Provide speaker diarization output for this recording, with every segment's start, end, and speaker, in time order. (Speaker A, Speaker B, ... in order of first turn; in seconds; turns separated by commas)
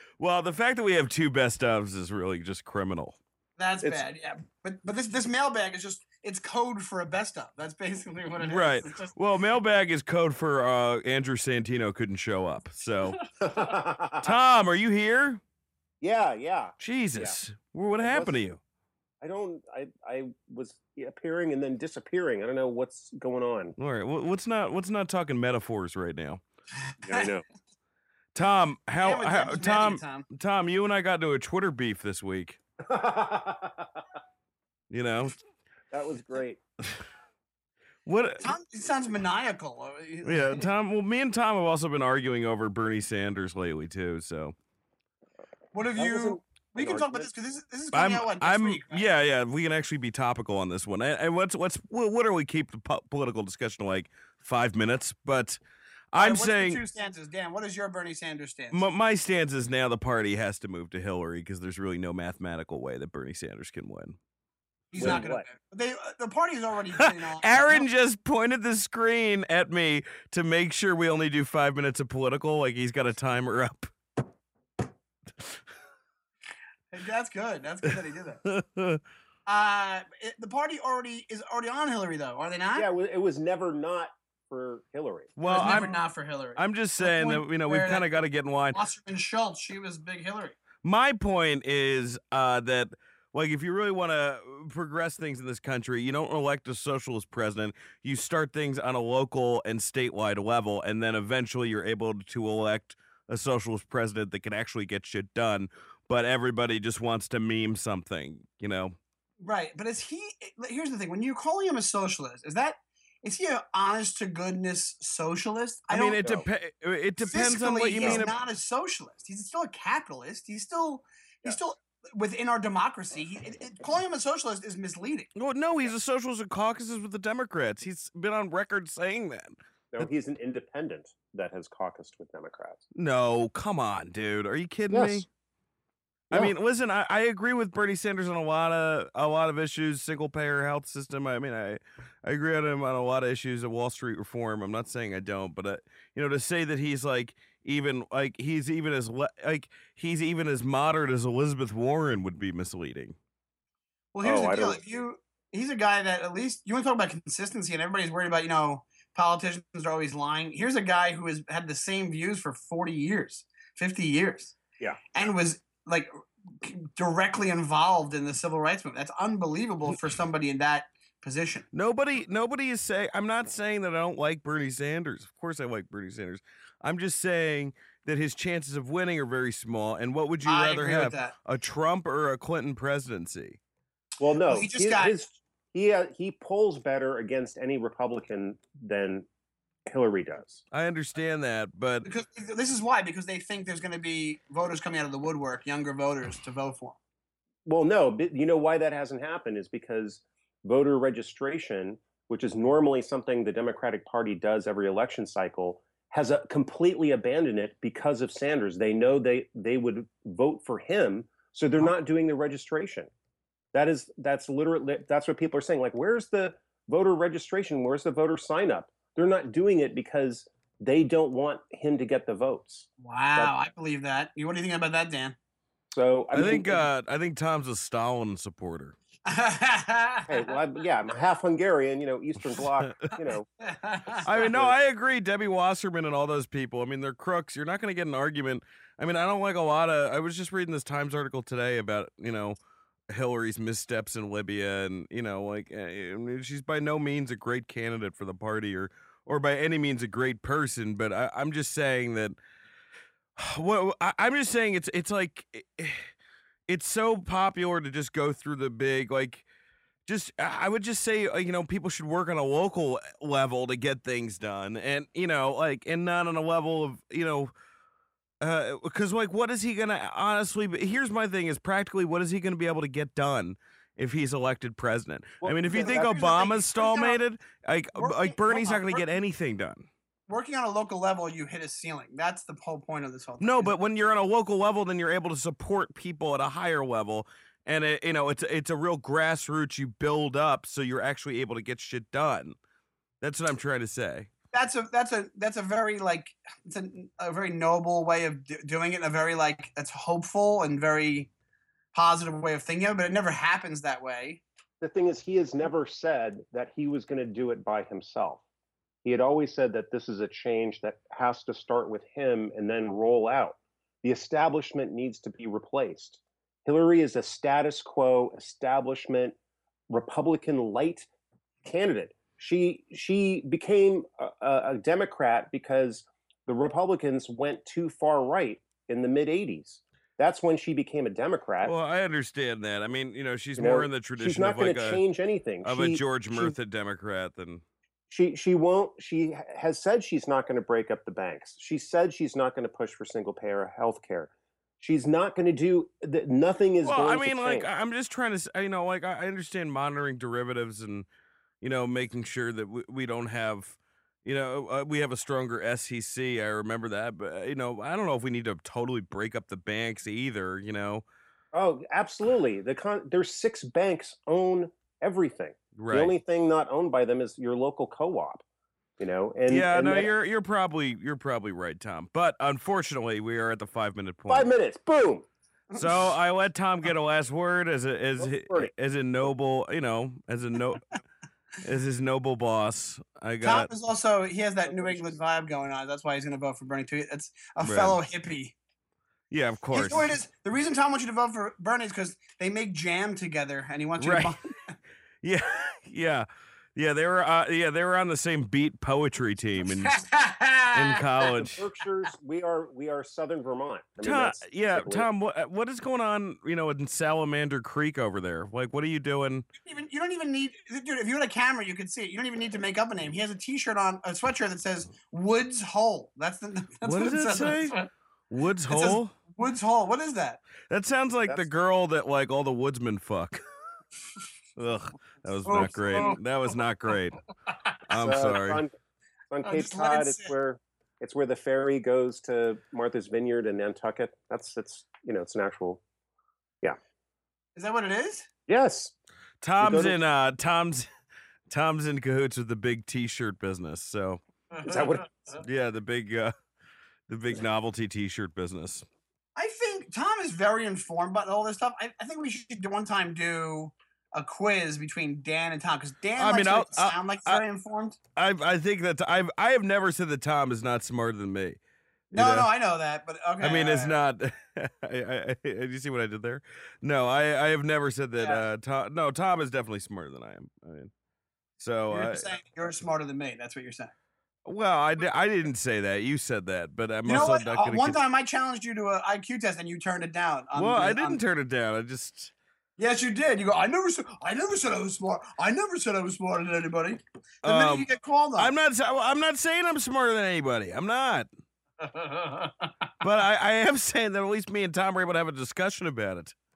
Speaker A: 0.2-3.2, Speaker B: 3.6-9.1, Speaker A: 8.4-13.2, Speaker C: 13.4-14.3, Speaker A: 14.2-15.4, Speaker C: 16.0-17.4, Speaker A: 16.8-18.6, Speaker C: 18.0-18.4, Speaker C: 19.2-23.7, Speaker A: 23.8-26.4, Speaker B: 26.9-27.3, Speaker C: 27.0-27.4, Speaker A: 28.3-32.6, Speaker B: 29.0-30.2, Speaker C: 32.8-34.0, Speaker A: 34.9-35.3, Speaker C: 35.9-36.6, Speaker A: 38.0-38.4, Speaker B: 38.4-40.7, Speaker A: 40.2-44.5, Speaker B: 45.7-49.0, Speaker C: 46.0-47.3, Speaker A: 47.9-55.6, Speaker A: 56.1-56.8, Speaker B: 56.2-58.9, Speaker A: 58.7-64.2, Speaker B: 64.9-67.9, Speaker C: 65.0-65.5, Speaker A: 67.2-73.9, Speaker B: 76.9-78.4, Speaker A: 78.4-79.0, Speaker B: 79.5-82.9, Speaker C: 82.7-85.8, Speaker A: 85.4-85.9, Speaker B: 85.4-88.0, Speaker A: 86.5-88.8, Speaker B: 88.7-90.5, Speaker A: 90.8-109.0, Speaker B: 109.4-116.3, Speaker A: 115.9-118.3, Speaker B: 117.3-125.3, Speaker A: 125.3-130.1, Speaker C: 129.9-132.8, Speaker A: 132.9-135.3, Speaker C: 134.9-135.2, Speaker A: 136.3-153.2, Speaker B: 154.1-164.6, Speaker C: 154.2-154.8, Speaker B: 165.1-166.1, Speaker B: 166.6-171.7, Speaker A: 171.7-183.6, Speaker B: 180.4-181.3, Speaker C: 184.2-189.3, Speaker B: 184.5-185.1, Speaker C: 189.9-190.6, Speaker A: 190.7-192.1, Speaker B: 192.0-197.0, Speaker C: 197.6-213.1, Speaker C: 213.7-223.5, Speaker B: 223.0-225.3, Speaker C: 225.9-226.8, Speaker A: 226.3-228.9, Speaker B: 229.3-230.4, Speaker C: 230.3-233.5, Speaker A: 232.4-233.1, Speaker B: 233.6-234.3, Speaker A: 234.2-242.6, Speaker C: 234.3-234.8, Speaker A: 243.1-252.3, Speaker A: 253.4-256.1, Speaker A: 256.7-259.4, Speaker A: 260.1-267.5, Speaker A: 268.4-279.9, Speaker C: 275.4-276.2, Speaker B: 275.7-277.2, Speaker B: 277.9-279.1, Speaker B: 280.3-283.7, Speaker A: 283.4-292.5, Speaker A: 293.2-294.3, Speaker B: 294.5-301.3, Speaker B: 301.9-304.4, Speaker C: 304.8-308.4, Speaker C: 309.0-319.4, Speaker C: 319.9-321.1, Speaker C: 321.6-331.7, Speaker A: 331.6-335.0, Speaker C: 333.6-336.6, Speaker A: 335.6-337.6, Speaker C: 338.1-347.7, Speaker A: 346.8-351.1, Speaker A: 351.6-361.0, Speaker C: 361.5-368.4, Speaker A: 365.8-366.1, Speaker C: 369.0-370.1, Speaker A: 369.5-374.5, Speaker C: 374.3-375.3, Speaker A: 375.7-381.0, Speaker C: 378.2-378.7, Speaker A: 381.6-383.7, Speaker B: 383.4-388.6, Speaker C: 384.6-385.2, Speaker A: 387.6-388.0, Speaker A: 389.3-390.1, Speaker B: 389.7-394.8, Speaker A: 394.0-394.4, Speaker A: 395.2-400.0, Speaker B: 399.8-401.0, Speaker A: 400.7-401.6, Speaker C: 401.4-405.1, Speaker A: 404.0-409.4, Speaker B: 409.6-417.9, Speaker A: 416.8-417.8, Speaker A: 418.3-419.1, Speaker B: 418.7-420.4, Speaker A: 420.7-423.4, Speaker A: 424.6-427.2, Speaker B: 425.4-426.2, Speaker A: 427.9-428.6, Speaker C: 427.9-428.7, Speaker C: 429.3-435.8, Speaker B: 429.4-430.3, Speaker B: 437.6-438.3, Speaker C: 438.5-438.9, Speaker A: 439.4-440.9, Speaker C: 439.6-440.0, Speaker A: 441.5-444.2, Speaker B: 444.5-445.4, Speaker C: 444.7-445.0, Speaker A: 445.4-446.3, Speaker A: 447.1-448.9, Speaker B: 449.4-458.0, Speaker A: 456.2-457.4, Speaker A: 458.1-461.6, Speaker A: 462.1-462.5, Speaker B: 462.1-464.0, Speaker A: 463.4-470.9, Speaker B: 468.2-468.4, Speaker A: 471.6-472.3, Speaker B: 471.9-473.9, Speaker A: 474.4-478.0, Speaker B: 477.1-481.2, Speaker A: 480.5-482.3, Speaker B: 482.8-488.5, Speaker A: 487.4-491.3, Speaker B: 491.8-492.7, Speaker A: 493.0-496.3